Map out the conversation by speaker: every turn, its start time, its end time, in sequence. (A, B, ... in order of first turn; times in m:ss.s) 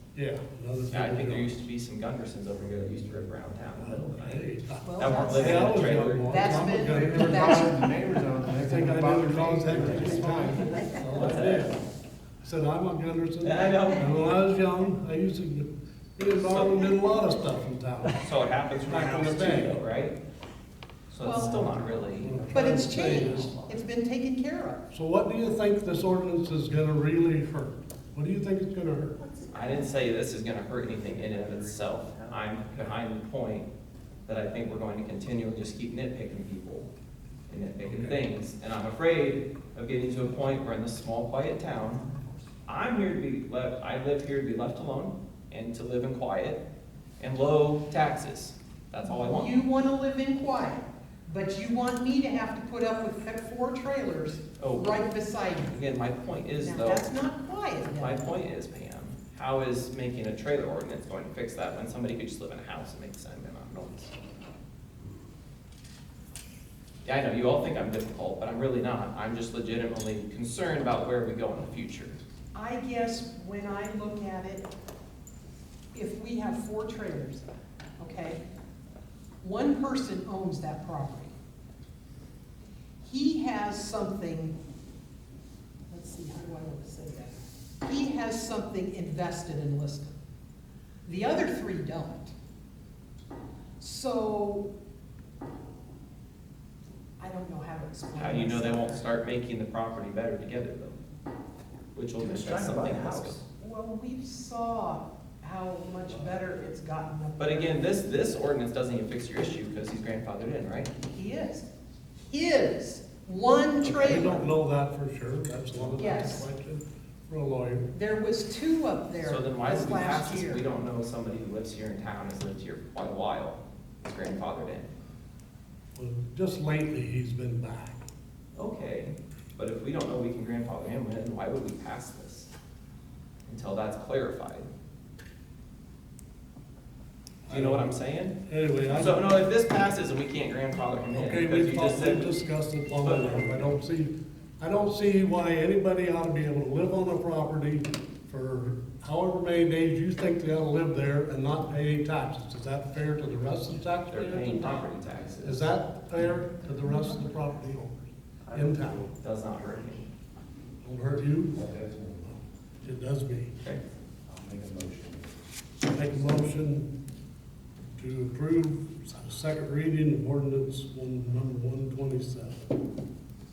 0:00.1-0:01.5 A
0:00.9-0:06.8 B
0:02.6-0:03.4 C
0:03.8-0:07.9 A
0:04.8-0:07.9 D
0:06.9-0:10.8 C
0:08.6-0:11.8 A
0:11.1-0:11.8 B
0:12.4-0:18.2 A
0:13.4-0:14.2 B
0:16.4-0:16.9 B
0:18.2-0:20.2 B
0:18.8-0:19.8 A
0:21.1-0:23.8 B
0:21.2-0:21.8 D
0:21.3-0:23.5 C
0:22.2-0:23.5 A
0:22.5-0:24.8 D
0:24.9-0:29.2 A
0:29.5-0:33.7 B
0:30.9-0:32.9 C
0:34.3-0:36.9 B
0:37.5-0:42.0 B
0:42.7-0:46.6 B
0:47.2-0:49.5 B
0:49.1-0:55.8 D
0:54.6-0:55.0 B
0:55.7-0:57.1 B
0:56.6-0:58.2 D
0:57.9-1:04.1 B
1:07.0-1:12.2 B
1:12.6-1:14.7 D
1:15.9-1:17.5 D
1:18.0-1:18.4 D
1:19.4-1:21.3 D
1:23.0-1:24.6 D
1:25.9-1:30.2 D
1:31.0-1:32.3 D
1:33.8-1:34.7 D
1:37.2-1:39.1 D
1:38.1-1:41.0 B
1:41.9-1:43.4 B
1:42.2-1:43.4 C
1:43.6-1:48.0 D
1:47.4-1:50.9 B
1:51.1-1:51.7 D
1:52.3-1:54.4 D
1:53.8-1:54.4 B
1:54.0-1:57.9 A
1:56.0-1:56.5 D
1:57.9-2:00.7 D
1:59.2-2:04.9 B
2:06.0-2:08.0 A
2:08.6-2:12.5 B
2:13.5-2:14.7 B
2:17.5-2:17.9 A
2:17.5-2:18.4 B
2:18.4-2:19.3 A
2:18.9-2:22.4 B
2:21.1-2:34.9 A
2:23.0-2:23.6 B
2:34.1-2:35.7 B
2:35.4-2:38.0 A
2:38.4-2:39.8 C
2:38.5-2:39.0 A
2:39.2-2:40.1 B
2:40.8-2:41.7 A
2:41.6-2:42.4 C
2:42.8-2:43.5 A
2:44.3-2:45.3 C
2:46.0-2:46.9 A
2:48.0-2:52.7 A